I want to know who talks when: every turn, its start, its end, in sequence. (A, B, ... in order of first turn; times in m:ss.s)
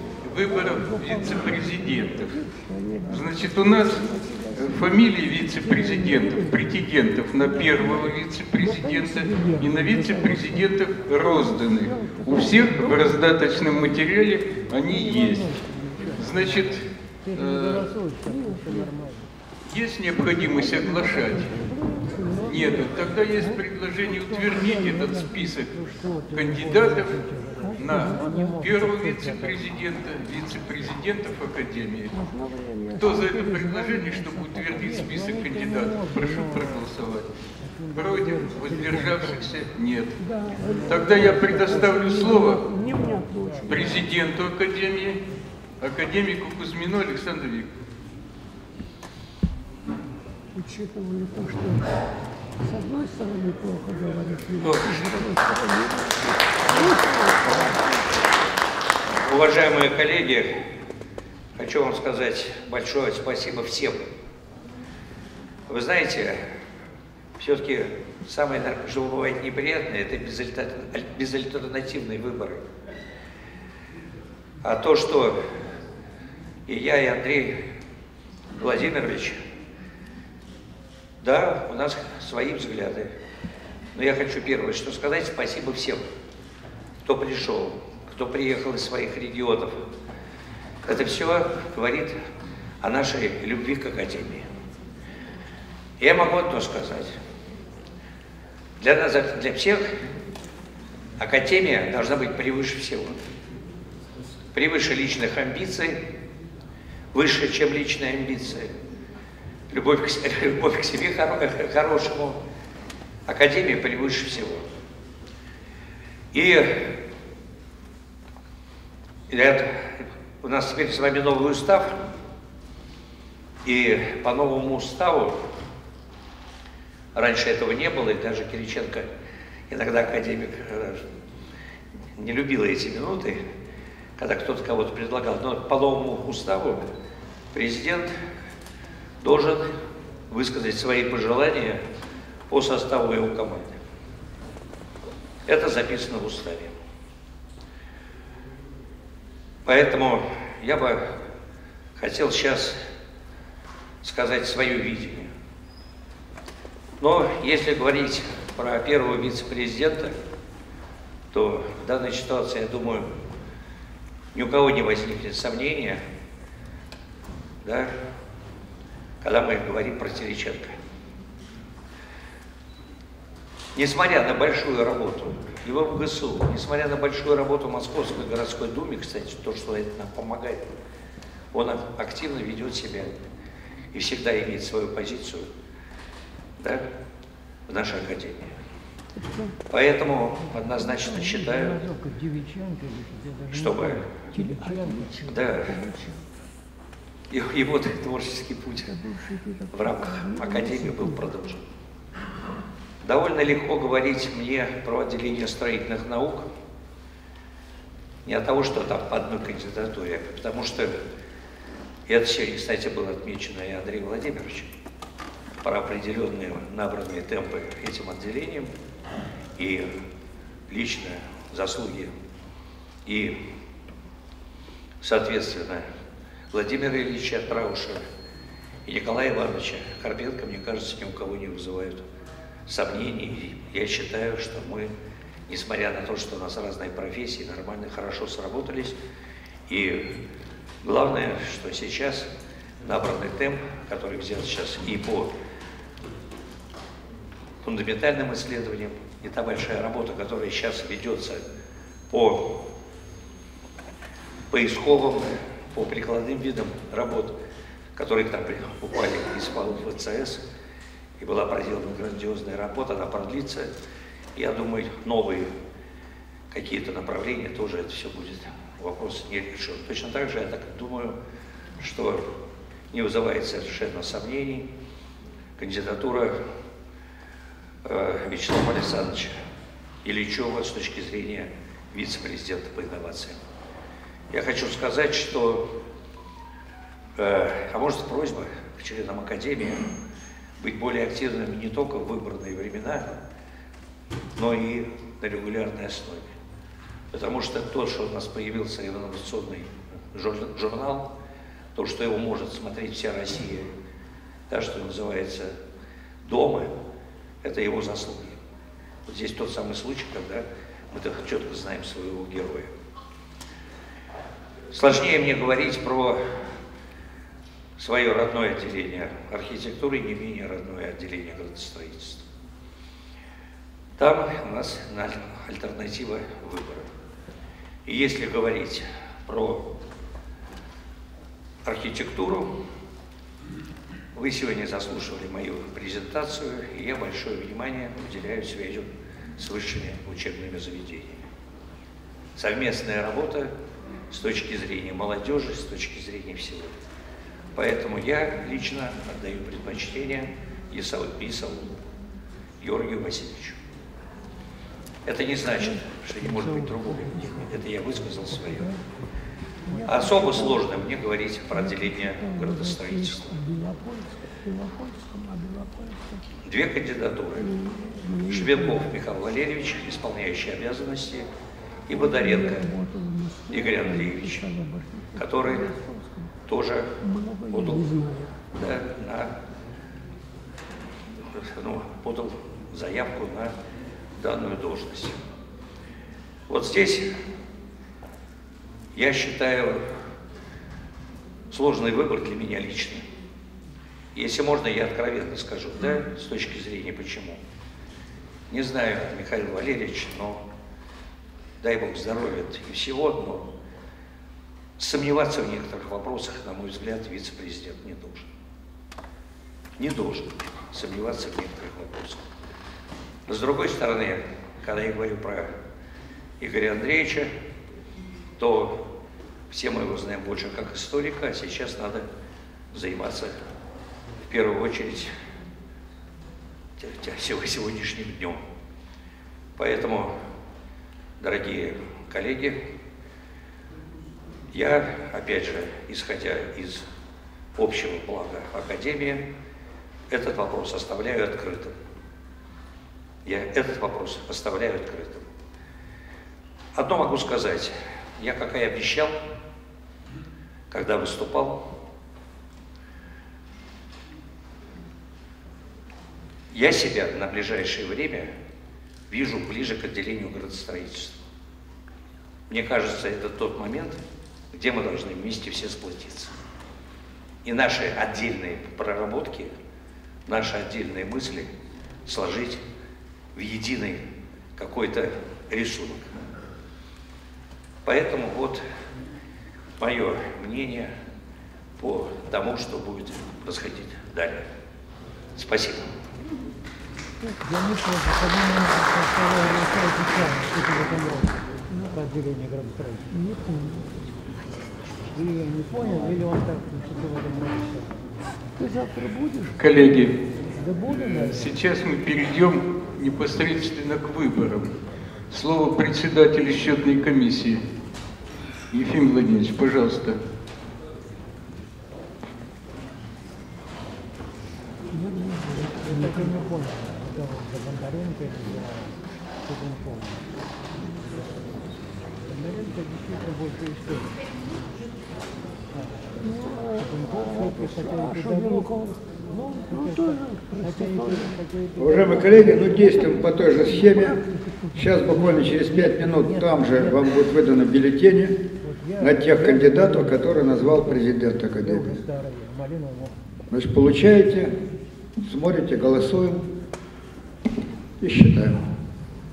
0:00.2-0:02.4 A
0:00.7-0:05.0 B
0:03.1-0:17.9 A
0:05.6-0:06.6 B
0:07.4-0:13.2 B
0:14.8-0:16.5 B
0:17.2-0:19.2 B
0:19.6-0:21.6 A
0:20.3-0:29.4 B
0:22.4-0:25.8 A
0:26.3-0:27.2 A
0:27.8-0:32.1 A
0:32.1-0:36.7 B
0:32.9-0:37.3 A
0:37.9-0:39.4 B
0:37.9-0:40.2 A
0:40.2-0:44.1 B
0:40.9-0:42.6 A
0:43.7-0:45.2 A
0:45.8-0:47.7 A
0:50.5-0:51.9 B
0:52.6-0:58.0 B
0:54.6-0:55.0 C
0:59.2-1:00.5 C
1:01.6-1:04.1 C
1:05.7-1:06.4 C
1:07.4-1:12.6 C
1:14.6-1:15.4 C
1:16.7-1:17.6 C
1:18.5-1:19.4 C
1:21.2-1:23.1 C
1:23.9-1:26.0 C
1:27.0-1:29.8 C
1:30.8-1:32.2 C
1:32.8-1:34.5 C
1:36.0-1:37.2 C
1:38.8-1:39.9 C
1:41.2-1:43.2 C
1:44.5-1:46.0 C
1:47.1-1:48.7 C
1:49.7-1:52.4 C
1:53.3-1:54.7 C
1:56.3-1:56.9 C
1:59.3-2:02.0 C
2:03.6-2:05.4 C
2:07.1-2:09.1 C
2:09.7-2:11.0 C
2:12.2-2:13.4 C
2:14.2-2:16.8 C
2:17.5-2:18.1 C
2:19.2-2:19.7 C
2:20.3-2:21.8 C
2:22.5-2:23.8 C
2:25.4-2:26.7 C
2:29.6-2:31.1 C
2:32.0-2:32.8 C
2:34.0-2:35.3 C
2:37.0-2:40.2 C
2:41.3-2:43.1 C
2:44.3-2:46.0 C
2:47.6-2:47.9 C
2:49.2-2:50.7 C
2:53.7-3:00.6 C
3:01.5-3:03.2 C
3:03.9-3:05.5 C
3:06.6-3:06.8 C
3:07.7-3:08.5 C
3:09.2-3:09.6 B
3:09.7-3:11.8 C
3:11.0-3:16.2 B
3:13.5-3:14.1 C
3:15.3-3:15.7 C
3:17.3-3:18.9 C
3:18.8-3:21.5 B
3:19.7-3:21.6 C
3:23.0-3:26.5 C
3:28.2-3:31.0 C
3:32.1-3:34.7 C
3:35.6-3:38.7 C
3:39.6-3:39.9 C
3:40.7-3:42.1 C
3:43.0-3:43.4 C
3:45.0-3:45.8 C
3:46.5-3:48.0 C
3:48.8-3:52.0 C
3:52.7-3:54.9 C
3:55.5-3:59.0 C
3:59.7-4:00.2 C
4:00.8-4:02.3 C
4:02.8-4:05.3 C
4:07.6-4:11.4 C
4:12.1-4:12.6 C
4:14.5-4:17.4 C
4:18.0-4:20.4 C
4:21.2-4:23.7 C
4:24.4-4:25.5 C
4:26.5-4:31.2 C
4:31.8-4:32.3 C
4:32.9-4:34.7 C
4:35.6-4:36.4 C
4:37.8-4:39.4 C
4:40.0-4:43.4 C
4:44.3-4:45.7 C
4:47.2-4:49.9 C
4:50.6-4:53.1 C
4:54.4-4:56.3 C
4:57.1-5:01.1 C
5:01.8-5:03.7 C
5:04.5-5:05.5 C
5:06.2-5:06.7 C
5:07.4-5:08.4 C
5:09.0-5:12.7 C
5:14.7-5:16.2 C
5:17.8-5:22.2 C
5:24.0-5:26.9 C
5:27.8-5:29.7 C
5:31.6-5:32.5 C
5:34.1-5:41.2 C
5:42.4-5:43.5 C
5:44.1-5:46.7 C
5:47.5-5:51.8 C
5:52.6-5:53.6 C
5:55.0-5:58.7 C
5:56.2-5:57.5 B
5:58.5-5:58.7 B
5:59.7-6:00.6 B
5:59.8-6:03.3 C
6:01.6-6:06.2 B
6:06.4-6:07.5 C
6:07.4-6:08.9 B
6:08.3-6:11.3 C
6:11.9-6:12.7 C
6:11.9-6:16.3 B
6:13.5-6:14.4 C
6:15.2-6:15.7 C
6:16.5-6:16.9 C
6:17.0-6:18.3 B
6:17.5-6:17.8 C
6:18.5-6:19.3 C
6:21.3-6:23.5 C
6:24.2-6:25.2 C
6:26.5-6:27.1 C
6:28.9-6:29.8 C
6:31.5-6:33.0 C
6:34.1-6:37.4 C
6:38.5-6:40.4 C
6:41.6-6:43.5 C
6:44.8-6:48.3 C
6:49.8-6:52.3 C
6:53.3-6:55.5 C
6:56.4-6:57.3 C
6:58.4-6:58.8 C
6:59.5-7:02.1 C
7:02.7-7:03.4 C
7:04.2-7:05.1 C
7:06.8-7:08.4 C
7:09.6-7:10.2 C
7:11.2-7:12.6 C
7:14.5-7:16.8 C
7:17.6-7:19.2 C
7:20.1-7:21.8 C
7:23.2-7:25.3 C
7:26.7-7:29.2 C
7:30.7-7:31.6 C
7:36.5-7:38.3 C
7:39.1-7:41.2 C
7:42.5-7:44.0 C
7:44.5-7:46.3 C
7:47.4-7:49.5 C
7:50.2-7:51.5 C
7:52.0-7:52.6 C
7:53.3-7:54.0 C
7:54.6-7:56.2 C
7:57.8-7:58.6 C
7:59.8-8:00.9 C
8:01.8-8:04.4 C
8:05.4-8:05.9 C
8:07.2-8:11.0 B
8:12.9-8:13.9 B
8:15.2-8:16.4 B
8:18.6-8:19.8 B
8:19.6-8:20.2 A
8:20.9-8:24.8 A
8:25.3-8:27.6 A
8:28.7-8:30.2 A
8:35.0-8:36.9 B
8:46.2-8:52.8 B
8:51.8-8:54.2 D
8:53.7-8:54.1 B
8:54.7-8:58.4 D
8:54.7-8:56.4 B
8:59.0-9:02.0 D
8:59.0-8:59.5 B
9:01.9-9:02.5 B
9:03.5-9:04.5 D
9:05.2-9:06.5 D
9:08.0-9:08.6 D